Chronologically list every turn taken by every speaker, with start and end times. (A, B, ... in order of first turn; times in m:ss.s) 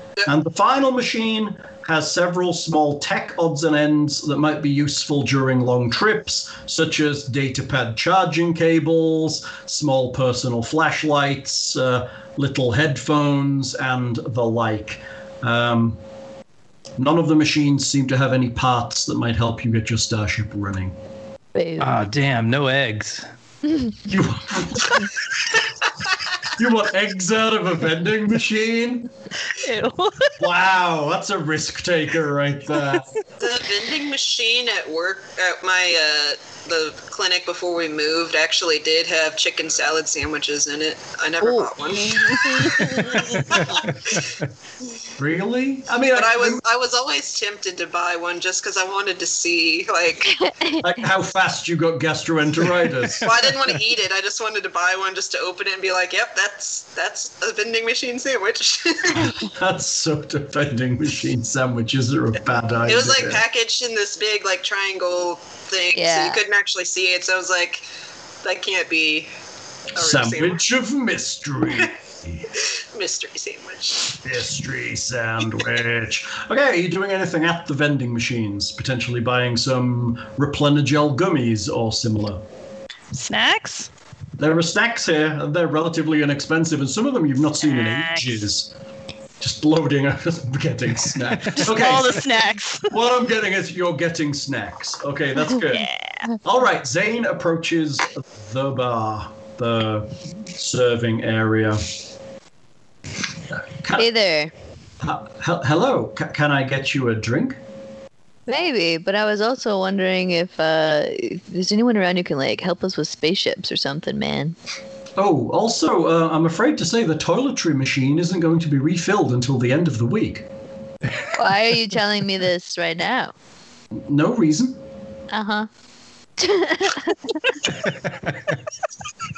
0:00.2-0:16.0 A
0:17.0-0:21.0 A
0:21.6-0:22.0 B
0:21.8-0:23.3 C
0:24.0-0:25.2 A
0:26.5-0:29.1 A
0:29.5-0:30.4 D
0:30.4-0:33.2 A
0:33.4-0:44.3 E
0:41.4-0:43.3 B
0:45.2-0:46.6 A
0:46.1-0:50.4 E
0:50.4-0:50.8 B
0:50.8-0:53.6 A
0:53.2-0:59.4 E
0:59.2-1:03.4 A
1:02.9-1:07.8 E
1:05.9-1:06.4 B
1:08.4-1:09.3 E
1:09.9-1:10.6 E
1:10.0-1:12.5 A
1:12.5-1:14.2 E
1:14.2-1:22.4 A
1:23.1-1:23.9 D
1:24.4-1:28.7 A
1:27.6-1:28.4 D
1:29.4-1:32.3 A
1:31.6-1:32.9 D
1:32.9-1:41.9 A
1:35.7-1:36.2 D
1:43.5-1:44.1 A
1:44.0-1:44.5 B
1:45.0-1:47.6 A
1:48.5-1:54.6 B
1:55.2-2:00.5 A
2:01.4-2:03.3 B
2:03.9-2:04.8 A
2:05.3-2:05.7 B
2:06.4-2:07.5 B
2:07.8-2:08.5 C